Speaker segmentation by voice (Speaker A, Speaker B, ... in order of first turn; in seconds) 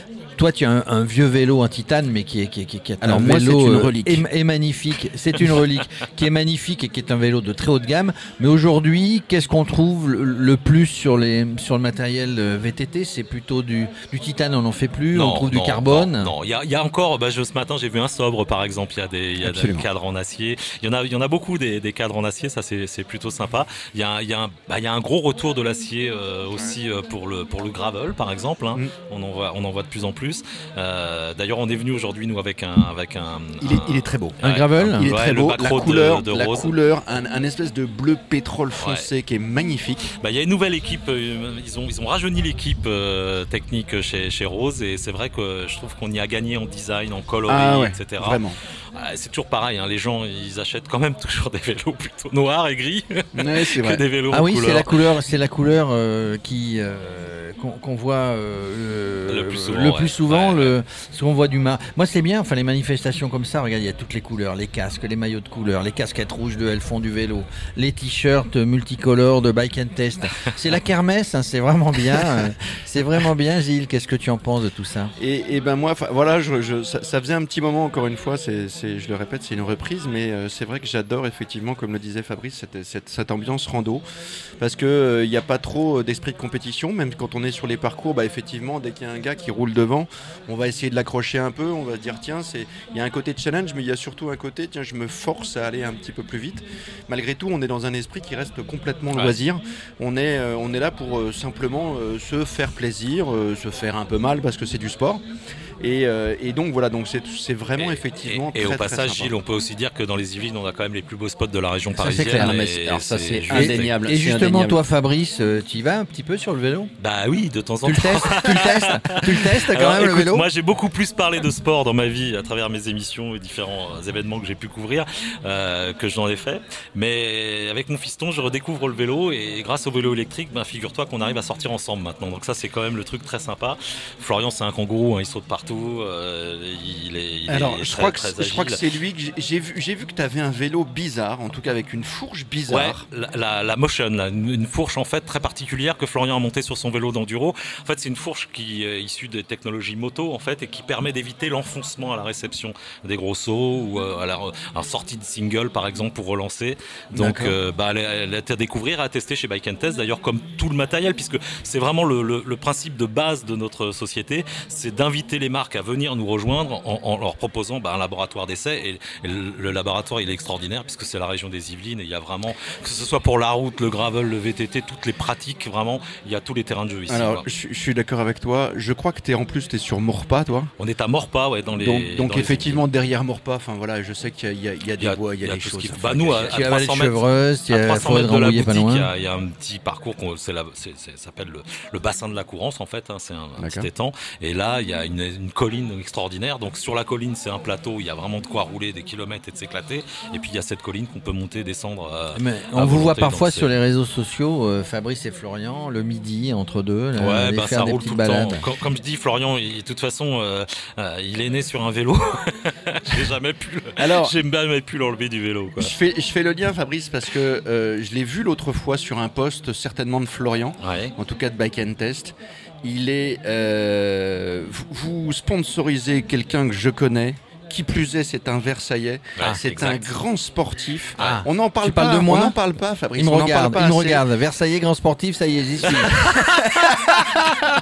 Speaker A: 0.4-16.3, 34.4-35.1, 54.3-75.1, 112.0-112.6, 113.5-116.9, 117.8-120.5, 157.1-157.6, 186.5-189.1, 202.3-208.7, 231.2-232.6, 233.2-236.2
Speaker B: 3.0-4.2, 19.4-19.9, 33.6-34.4, 35.0-40.1, 47.5-48.5, 53.4-54.0, 75.2-84.0, 84.6-105.2, 105.8-109.3, 112.3-114.8, 137.5-143.0, 177.1-180.7, 181.7-186.7, 193.6-193.9, 214.0-214.4, 215.8-234.2, 235.9-237.6
Speaker C: 15.1-36.7, 38.8-39.1, 40.2-54.9, 59.3-60.8, 99.1-99.4, 107.8-114.0, 117.0-138.8, 142.7-177.4, 180.8-182.8, 185.0-203.7, 207.2-215.9, 220.8-221.2, 229.4-230.1, 231.2-231.4, 235.9-237.0